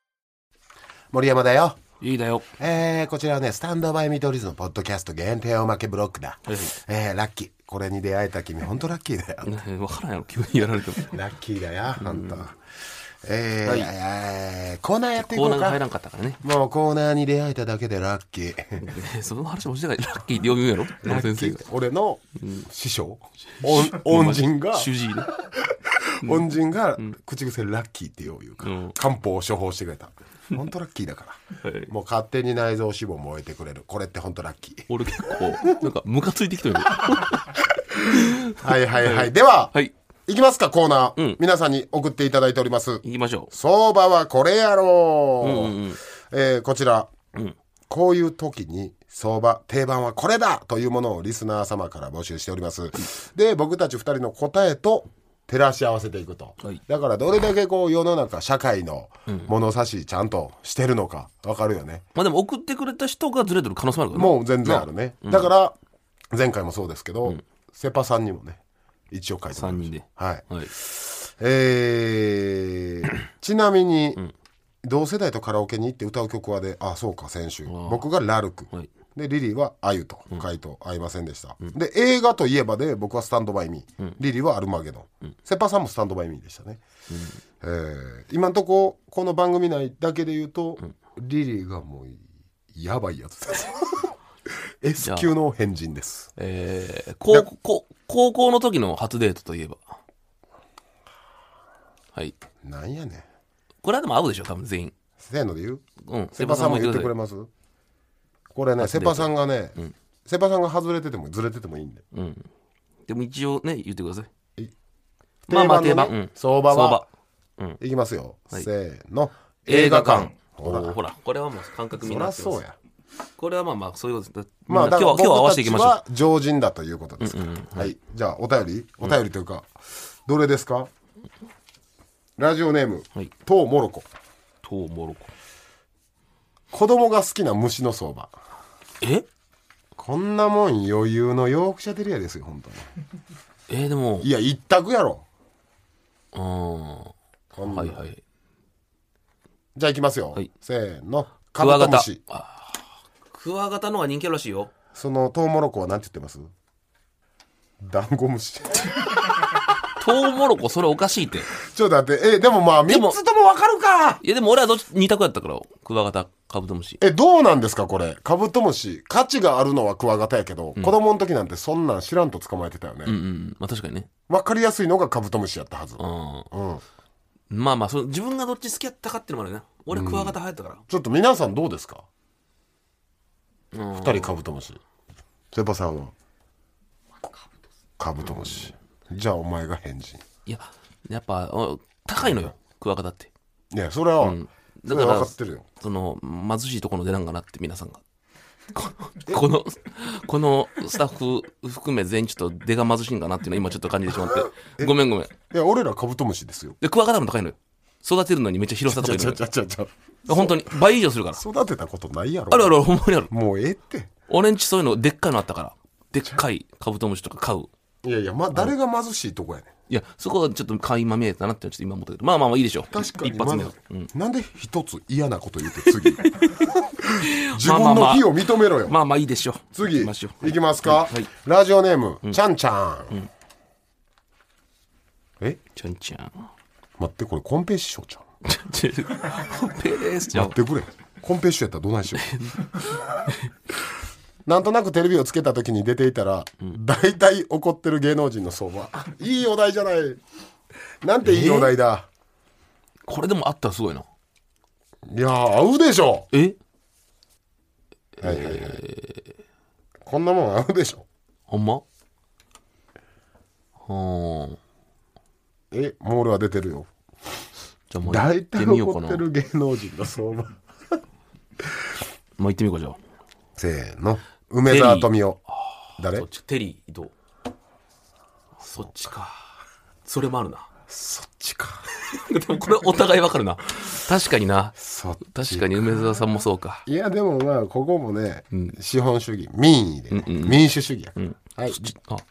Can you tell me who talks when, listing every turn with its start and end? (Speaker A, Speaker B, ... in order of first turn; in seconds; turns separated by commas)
Speaker A: 1.1-1.8, Speaker B: 2.0-2.5, Speaker A: 2.6-9.5, Speaker B: 6.5-6.7, Speaker B: 9.4-11.2, Speaker A: 11.0-12.6, Speaker B: 12.0-12.4, Speaker A: 13.2-15.8, Speaker B: 13.6-13.9, Speaker B: 15.2-16.4, Speaker A: 16.4-18.9, Speaker B: 18.8-21.6, Speaker A: 21.0-35.4, Speaker B: 22.4-22.6, Speaker B: 23.5-25.3, Speaker B: 26.2-27.1, Speaker B: 28.6-28.9, Speaker B: 31.6-31.9, Speaker B: 34.9-39.9, Speaker A: 38.1-39.7, Speaker A: 40.3-47.1, Speaker B: 43.0-43.5, Speaker B: 45.4-46.0, Speaker A: 47.9-62.0, Speaker B: 62.1-65.5, Speaker A: 64.1-65.8, Speaker A: 66.3-68.6, Speaker A: 69.1-74.2, Speaker B: 69.5-70.7, Speaker A: 74.8-86.8, Speaker B: 77.7-78.1, Speaker B: 87.1-87.4, Speaker A: 87.6-92.2, Speaker A: 92.7-94.1, Speaker A: 94.8-96.3, Speaker B: 95.0-95.3, Speaker B: 96.3-99.8, Speaker A: 102.6-103.2, Speaker B: 103.8-104.9, Speaker A: 105.2-105.8, Speaker B: 106.0-107.1, Speaker A: 106.3-107.5, Speaker A: 108.5-112.0, Speaker B: 108.8-109.9, Speaker B: 112.1-112.5, Speaker B: 113.1-114.3, Speaker A: 115.5-117.0, Speaker B: 115.5-117.0, Speaker A: 117.8-121.0, Speaker B: 119.7-122.6, Speaker A: 122.0-122.8, Speaker B: 123.4-126.0, Speaker A: 124.7-129.7, Speaker B: 127.2-127.9, Speaker A: 130.2-130.9, Speaker A: 132.4-134.1, Speaker B: 134.6-135.3, Speaker A: 136.7-138.3, Speaker B: 139.0-139.2, Speaker A: 140.0-142.9, Speaker B: 143.7-144.3, Speaker A: 144.2-145.2, Speaker B: 146.3-148.2, Speaker A: 147.5-148.0, Speaker A: 149.7-152.2, Speaker B: 151.6-154.7, Speaker A: 154.9-156.5, Speaker A: 157.8-159.6, Speaker B: 160.0-161.5, Speaker A: 161.6-164.2, Speaker B: 162.9-163.2, Speaker B: 164.2-167.0, Speaker A: 167.0-173.2, Speaker B: 173.1-174.1, Speaker A: 174.3-176.8, Speaker B: 176.0-176.5, Speaker B: 177.5-180.8, Speaker A: 179.9-180.4, Speaker A: 180.9-182.1, Speaker B: 183.7-184.4, Speaker A: 184.0-184.8, Speaker A: 185.5-186.1, Speaker A: 188.0-190.2, Speaker B: 190.4-193.3, Speaker A: 192.2-192.5, Speaker A: 193.7-195.7, Speaker B: 194.2-198.0, Speaker B: 198.7-205.3, Speaker A: 205.5-206.8, Speaker B: 206.8-209.4, Speaker A: 208.8-210.7, Speaker B: 210.3-211.4, Speaker A: 211.3-212.7, Speaker B: 212.5-213.3, Speaker A: 213.3-214.1, Speaker B: 214.3-217.7, Speaker A: 218.0-219.7, Speaker B: 219.9-224.1, Speaker A: 222.9-228.9, Speaker B: 225.7-231.3, Speaker A: 229.7-233.2, Speaker B: 235.7-236.5, Speaker A: 237.0-238.2, Speaker B: 238.4-240.6, Speaker A: 240.3-242.4, Speaker B: 242.1-243.5, Speaker A: 244.4-250.2, Speaker A: 251.0-252.1, Speaker B: 251.2-251.7, Speaker B: 253.1-254.1, Speaker A: 255.1-256.3, Speaker B: 256.3-256.6, Speaker B: 258.2-259.3, Speaker A: 258.2-258.8, Speaker A: 260.1-261.1, Speaker B: 261.5-261.8, Speaker B: 263.9-264.6, Speaker A: 265.7-266.9, Speaker B: 267.9-269.2, Speaker A: 268.0-270.6, Speaker B: 272.4-273.0, Speaker A: 273.6-275.4, Speaker B: 274.7-275.1, Speaker A: 276.0-276.2, Speaker B: 276.0-277.1, Speaker B: 278.6-279.4, Speaker B: 280.1-280.7, Speaker A: 280.9-281.8, Speaker B: 282.0-286.8, Speaker A: 284.8-285.9, Speaker A: 286.9-291.8, Speaker B: 290.1-290.6, Speaker B: 291.2-292.2